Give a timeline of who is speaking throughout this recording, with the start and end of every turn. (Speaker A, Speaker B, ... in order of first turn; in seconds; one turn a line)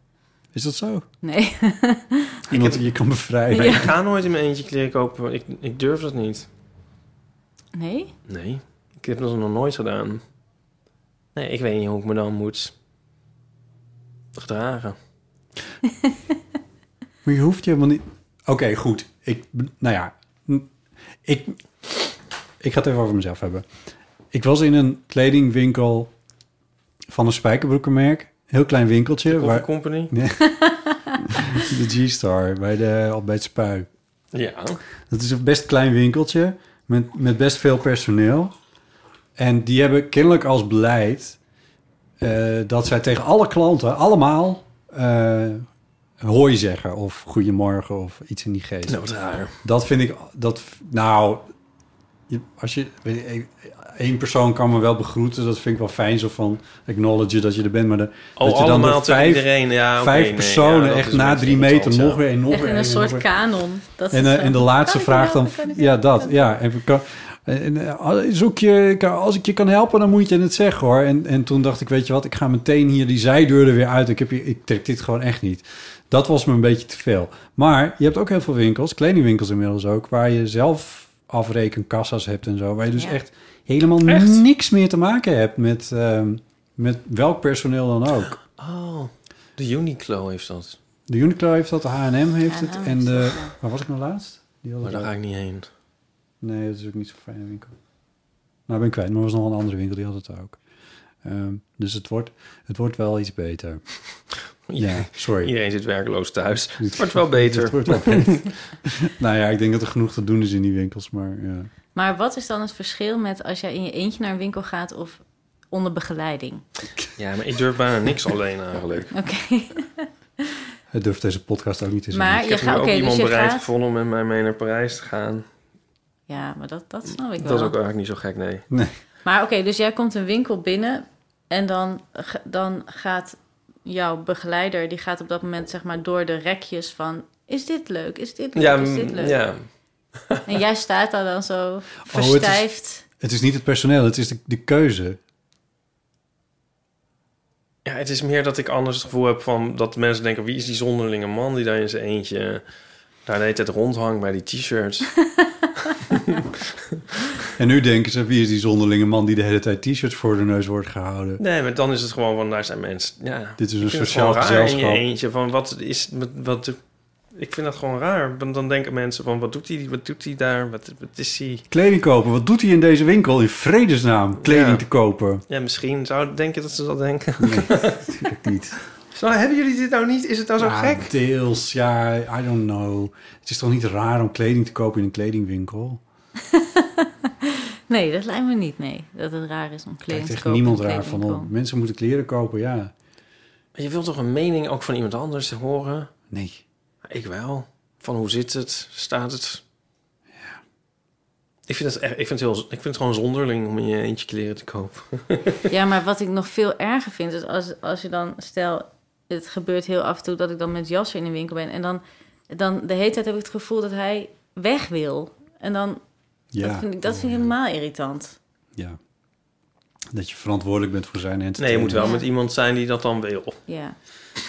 Speaker A: 0.5-1.1
Speaker B: 1.2-2.4
Speaker A: 2.5-4.0
Speaker C: 2.5-2.8
Speaker B: 3.5-3.9
Speaker C: 3.6-6.5
Speaker B: 7.7-8.1
Speaker C: 8.3-10.2
Speaker C: 11.3-12.7
Speaker C: 14.3-15.0
Speaker A: 17.2-20.7
Speaker A: 21.2-21.6
Speaker A: 22.6-23.6
Speaker A: 24.3-26.1
Speaker A: 27.1-30.6
Speaker C: 29.3-30.1
Speaker A: 31.2-33.9
Speaker C: 34.3-34.8
Speaker A: 35.1-38.5
Speaker A: 39.4-41.4
Speaker A: 42.2-45.7
Speaker A: 46.2-49.0
Speaker C: 48.9-49.5
Speaker A: 49.6-51.5
Speaker A: 52.3-63.3
Speaker C: 58.4-62.2
Speaker B: 62.5-66.6
Speaker A: 64.1-88.4
Speaker C: 84.1-84.4
Speaker C: 88.6-90.8
Speaker A: 91.1-95.1
Speaker B: 92.5-93.5
Speaker C: 94.8-95.7
Speaker A: 96.4-97.7
Speaker A: 98.7-100.6
Speaker A: 101.2-103.8
Speaker C: 104.7-108.5
Speaker A: 104.8-105.5
Speaker A: 106.8-111.7
Speaker B: 112.0-116.6
Speaker C: 117.2-119.1
Speaker B: 119.1-120.1
Speaker A: 120.9-122.5
Speaker B: 122.1-123.7
Speaker C: 122.4-125.5
Speaker B: 126.3-127.8
Speaker C: 127.4-128.7
Speaker A: 128.7-128.9
Speaker B: 129.2-139.4
Speaker C: 138.6-139.6
Speaker B: 140.5-143.0
Speaker A: 142.1-142.7
Speaker A: 143.2-145.2
Speaker C: 147.8-152.6
Speaker C: 153.3-155.2
Speaker C: 156.1-156.4
Speaker A: 157.6-161.4
Speaker C: 161.4-166.8
Speaker A: 163.6-165.0
Speaker C: 167.3-171.7
Speaker A: 171.7-175.4
Speaker C: 174.4-174.8
Speaker C: 175.5-178.1
Speaker A: 177.4-178.8
Speaker C: 179.1-181.1
Speaker A: 180.6-186.0
Speaker B: 186.5-191.5
Speaker A: 190.1-192.9
Speaker C: 193.8-196.1
Speaker A: 196.3-196.6
Speaker C: 197.1-199.6
Speaker C: 201.7-205.6
Speaker B: 205.7-216.0
Speaker A: 216.5-217.5
Speaker B: 216.6-218.4
Speaker A: 220.1-222.1
Speaker C: 221.6-223.6
Speaker B: 222.0-222.2
Speaker B: 223.7-224.0